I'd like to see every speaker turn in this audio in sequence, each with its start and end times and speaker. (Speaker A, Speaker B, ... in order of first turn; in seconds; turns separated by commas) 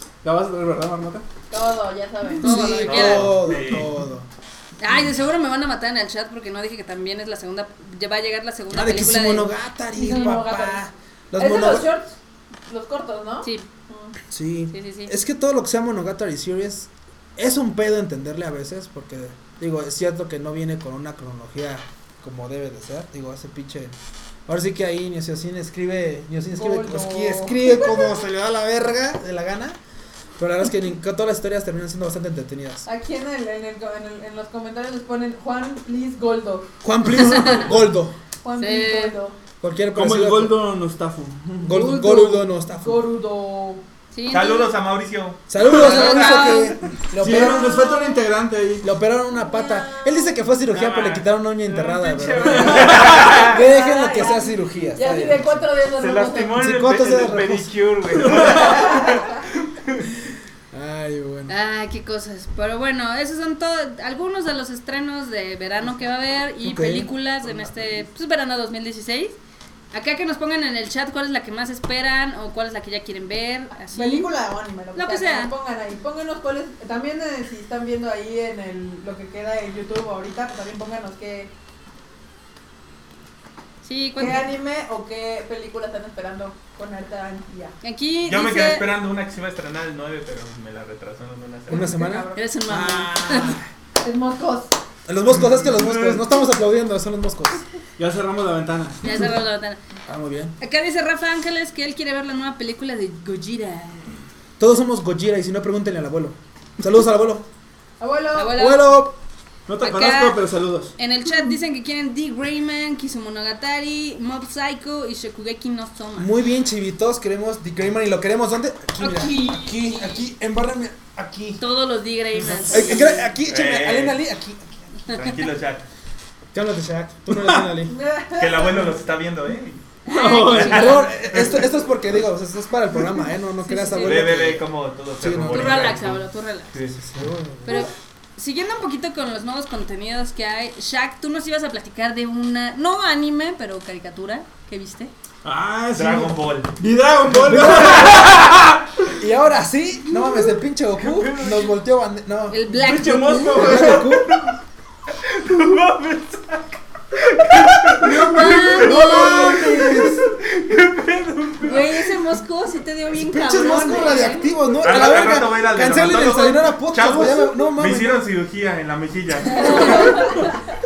Speaker A: 0.2-1.3, Speaker B: 1.5-3.0, Speaker C: 2.4-3.4, Speaker D: 2.4-4.3, Speaker E: 2.9-3.9, Speaker C: 4.8-9.5, Speaker D: 8.7-11.9, Speaker B: 9.9-10.8, Speaker B: 11.3-12.2, Speaker B: 12.7-14.2, Speaker D: 14.3-24.0, Speaker C: 14.7-15.1, Speaker D: 24.5-29.8, Speaker B: 26.5-28.1, Speaker D: 30.4-32.9, Speaker B: 32.9-36.7, Speaker D: 36.8-38.2, Speaker C: 37.2-37.7, Speaker B: 38.4-39.4, Speaker C: 38.6-39.1, Speaker D: 39.6-40.6, Speaker A: 39.9-41.8, Speaker D: 41.6-43.1, Speaker B: 41.7-43.8, Speaker C: 44.1-44.8, Speaker E: 44.3-46.5, Speaker D: 45.5-47.8, Speaker C: 45.6-46.8, Speaker B: 46.1-48.2, Speaker A: 47.2-48.9, Speaker D: 48.8-55.7, Speaker B: 49.6-50.0, Speaker F: 50.8-53.4, Speaker B: 52.6-56.7, Speaker E: 52.8-53.5, Speaker F: 56.0-59.3, Speaker D: 56.5-57.7, Speaker B: 58.6-59.3, Speaker D: 60.7-61.5, Speaker C: 61.5-69.4, Speaker D: 66.6-67.1, Speaker C: 69.9-74.3, Speaker B: 73.9-81.5, Speaker C: 75.0-75.5, Speaker C: 83.8-84.5, Speaker B: 84.2-87.7, Speaker C: 87.8-88.9, Speaker E: 88.3-91.9, Speaker D: 91.7-93.7, Speaker B: 91.7-92.5, Speaker C: 92.3-93.6, Speaker B: 94.0-94.8, Speaker D: 95.1-97.6, Speaker A: 98.0-99.0, Speaker C: 99.0-99.8, Speaker D: 100.1-100.5, Speaker C: 100.6-104.1, Speaker D: 104.6-107.5, Speaker B: 108.0-108.6, Speaker C: 108.3-109.0, Speaker D: 108.5-109.2, Speaker A: 109.7-110.9, Speaker C: 109.8-110.4, Speaker C: 111.0-116.3, Speaker D: 116.2-121.6, Speaker C: 119.0-120.2, Speaker B: 119.1-119.5, Speaker C: 121.6-123.3, Speaker D: 122.7-124.9, Speaker E: 122.7-124.2, Speaker E: 125.1-125.8, Speaker D: 126.5-128.0, Speaker B: 127.8-128.9, Speaker E: 128.4-129.8, Speaker C: 130.1-131.1, Speaker A: 130.1-131.0, Speaker E: 130.5-131.7, Speaker D: 130.6-134.7, Speaker C: 133.7-134.2, Speaker E: 134.0-136.2, Speaker D: 135.2-136.0, Speaker C: 135.5-136.7, Speaker E: 136.7-137.0, Speaker D: 137.0-137.9, Speaker C: 137.7-145.1, Speaker A: 145.4-148.8, Speaker E: 145.9-146.7, Speaker D: 147.4-148.2, Speaker D: 149.2-152.7, Speaker F: 151.1-151.6, Speaker C: 152.5-153.9, Speaker A: 152.8-154.2, Speaker D: 153.5-154.3, Speaker E: 155.4-156.6, Speaker F: 155.5-156.4, Speaker E: 157.3-158.2, Speaker C: 158.0-159.6, Speaker D: 158.0-160.2, Speaker F: 160.7-161.8, Speaker C: 161.6-164.6, Speaker D: 163.2-168.2, Speaker E: 164.8-170.3, Speaker B: 169.5-170.5, Speaker C: 169.6-170.5